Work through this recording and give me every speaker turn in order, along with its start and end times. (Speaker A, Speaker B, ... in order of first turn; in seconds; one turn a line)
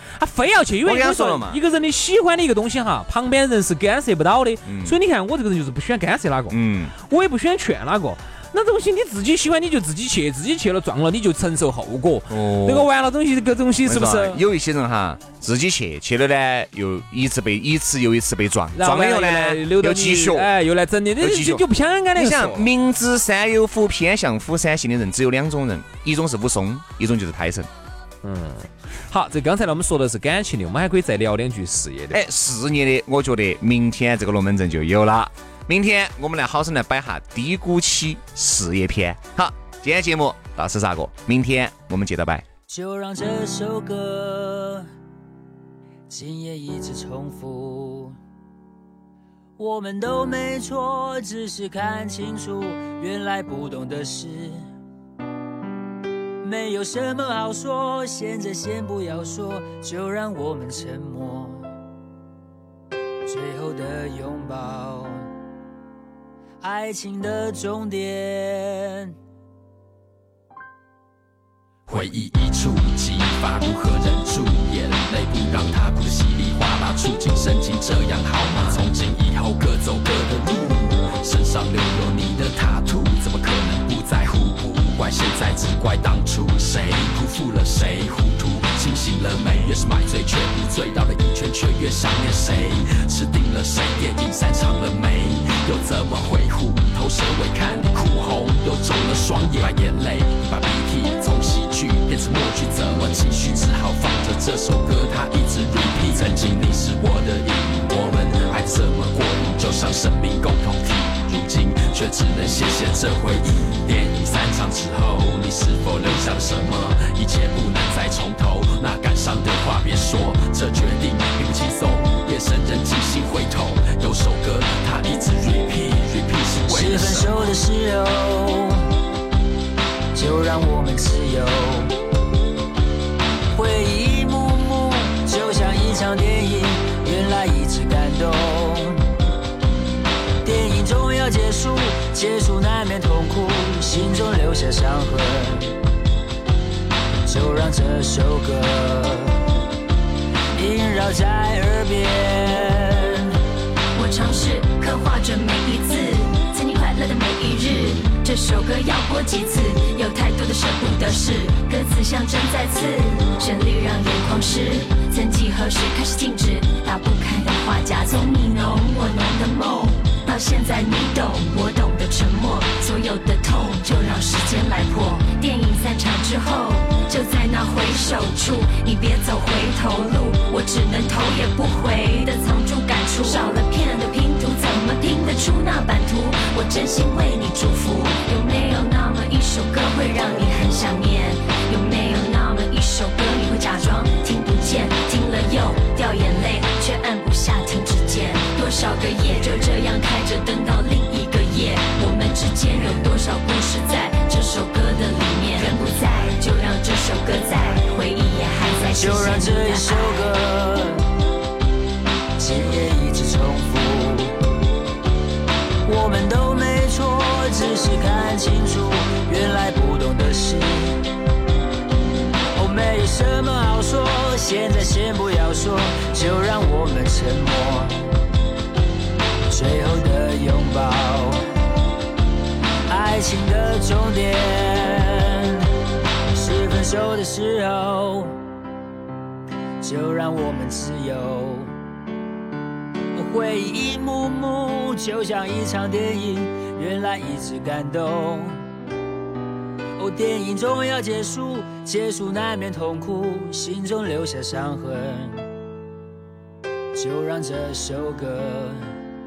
Speaker A: 0.2-14.4
Speaker B: 0.8-1.6
Speaker B: 4.6-5.0
Speaker B: 6.5-6.9
Speaker B: 12.3-12.9
Speaker B: 13.8-20.5
Speaker A: 18.7-22.7
Speaker B: 21.2-27.7
Speaker A: 28.2-32.2
Speaker B: 32.1-42.4
Speaker C: 42.7-44.9
Speaker C: 46.1-48.2
Speaker C: 49.6-54.7
Speaker C: 56.4-61.6
Speaker C: 63.2-65.3
Speaker C: 66.6-69.1
Speaker D: 71.9-127.5
Speaker C: 126.7-128.8
Speaker C: 130.1-131.9
Speaker C: 133.5-139.0
Speaker C: 140.4-145.7
Speaker C: 147.2-149.4
Speaker C: 150.6-153.3
Speaker E: 153.9-210.2
Speaker C: 208.9-211.0
Speaker C: 212.4-214.4
Speaker C: 215.8-221.0
Speaker C: 222.5-228.1
Speaker C: 229.5-231.4
Speaker C: 232.9-235.7
Speaker C: 236.3-238.3
Speaker C: 239.8-241.7
Speaker C: 243.1-248.6
Speaker C: 250.0-255.5
Speaker C: 256.9-258.8